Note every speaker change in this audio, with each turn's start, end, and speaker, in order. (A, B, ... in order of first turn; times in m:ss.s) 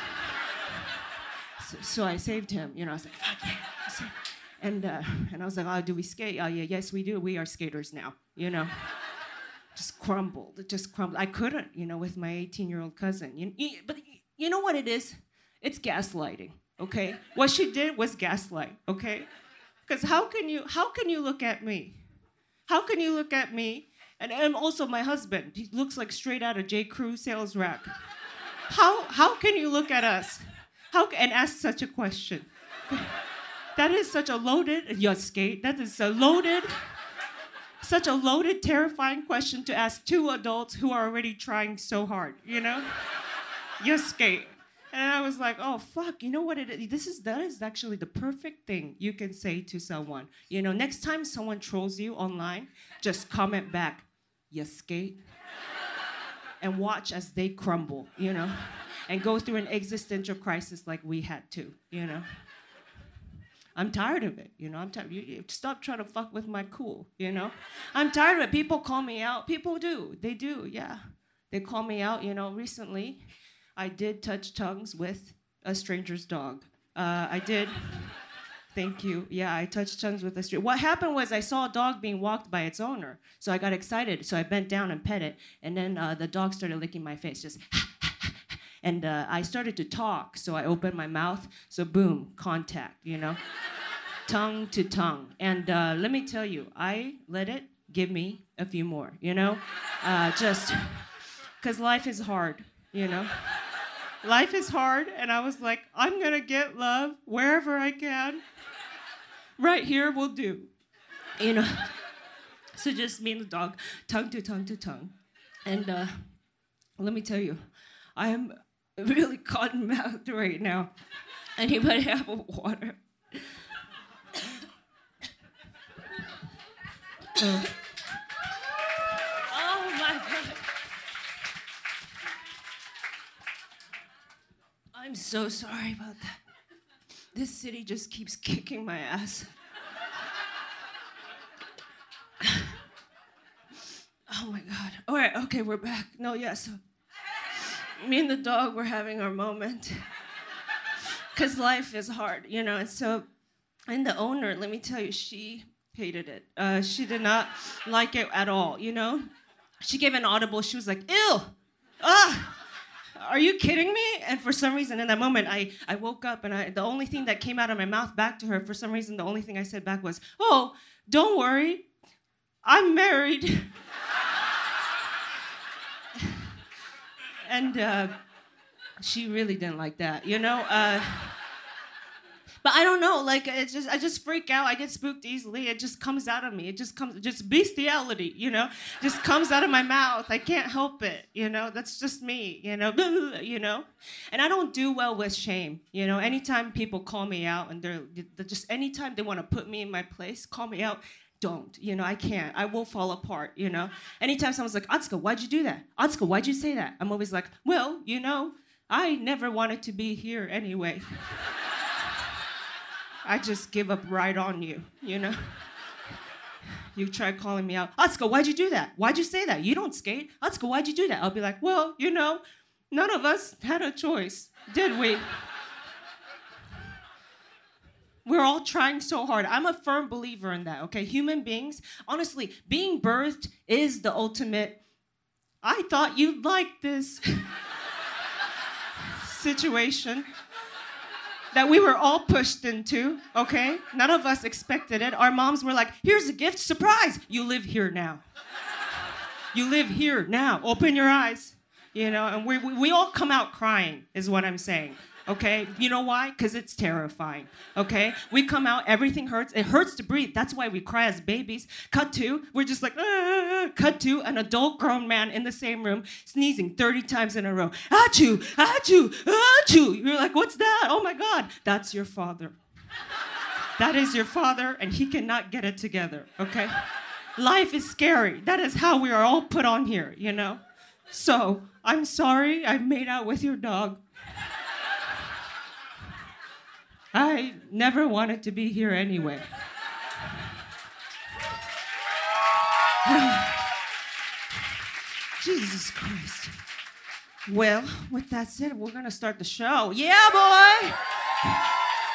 0:01.6-0:08.7 A
0:09.8-0:19.3 A
0:19.9-0:22.0 A
0:22.7-0:27.9 A
0:28.7-0:33.1 A
0:33.8-0:36.7 A
0:37.8-0:42.9 A
0:43.8-0:55.2 A
0:56.6-0:58.6 A
0:59.1-1:02.3 A
1:03.8-1:11.0 A
1:11.5-1:13.2 A
1:13.8-1:18.1 A
1:18.7-1:33.4 A
1:34.3-1:41.0 A
1:41.6-1:43.3 A
1:44.2-1:48.4 A
1:49.6-1:50.7 A
1:51.4-1:51.9 A
1:52.8-1:55.1 A
1:55.7-1:56.2 A
1:57.0-1:57.6 A
1:58.2-2:00.9 A
2:01.6-2:03.4 A
2:07.4-2:07.7 A
2:09.5-2:10.6 A
2:15.0-2:16.4 A
2:17.4-2:19.5 A
2:22.4-2:22.7 A
2:24.3-2:26.8 A
2:28.0-2:30.0 A
2:31.4-2:33.3 A
2:33.9-2:39.3 A
2:39.8-2:42.6 A
2:43.2-2:51.8 A
2:52.6-2:53.7 A
2:56.2-2:56.4 A
2:57.5-2:58.1 A
2:59.0-3:01.4 A
3:02.6-3:31.0 A
3:33.2-3:35.5 A
3:37.0-3:45.3 A
3:48.2-3:54.8 A
3:55.6-3:57.5 A
3:59.2-4:00.3 A
4:01.5-4:08.2 A
4:09.5-4:32.6 A
4:33.8-4:36.8 A
4:37.4-4:44.0 A
4:47.1-4:49.4 A
4:53.0-4:53.6 A
4:55.4-4:56.5 A
4:57.5-5:01.0 A